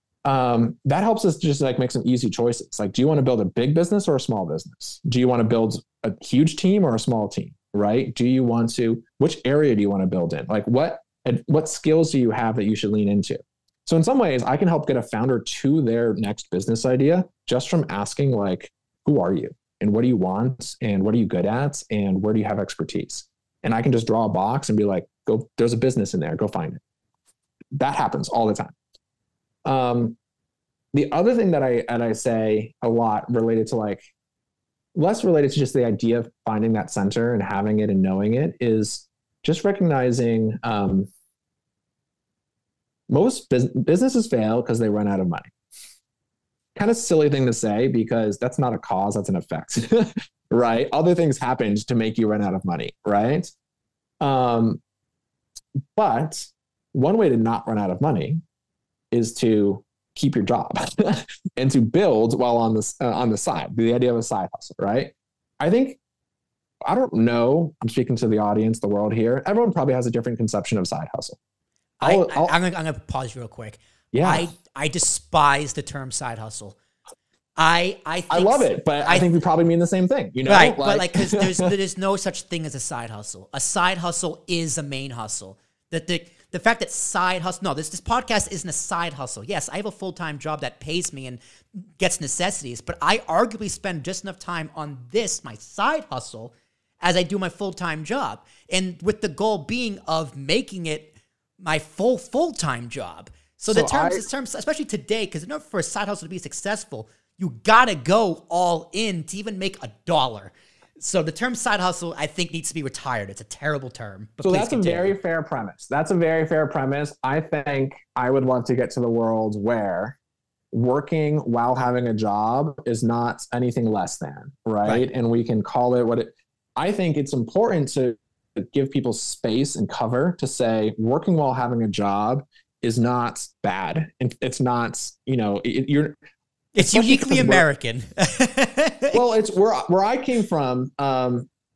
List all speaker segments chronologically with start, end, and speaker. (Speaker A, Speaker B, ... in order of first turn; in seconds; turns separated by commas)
Speaker A: 0.2-26.8, Speaker A: 27.8-28.8, Speaker A: 29.6-30.2, Speaker A: 30.9-34.0, Speaker A: 35.0-41.1, Speaker A: 43.1-45.5, Speaker A: 46.8-53.5, Speaker A: 54.2-54.8, Speaker A: 56.0-58.4, Speaker A: 59.1-66.0, Speaker A: 66.9-71.4, Speaker B: 72.0-76.8, Speaker A: 72.0-72.5, Speaker A: 74.1-74.5, Speaker B: 77.6-79.3, Speaker A: 78.3-81.7, Speaker B: 80.5-115.2, Speaker A: 103.7-104.2, Speaker A: 114.4-120.2, Speaker A: 120.7-136.2, Speaker B: 136.8-139.2, Speaker A: 136.8-137.7, Speaker A: 139.1-141.5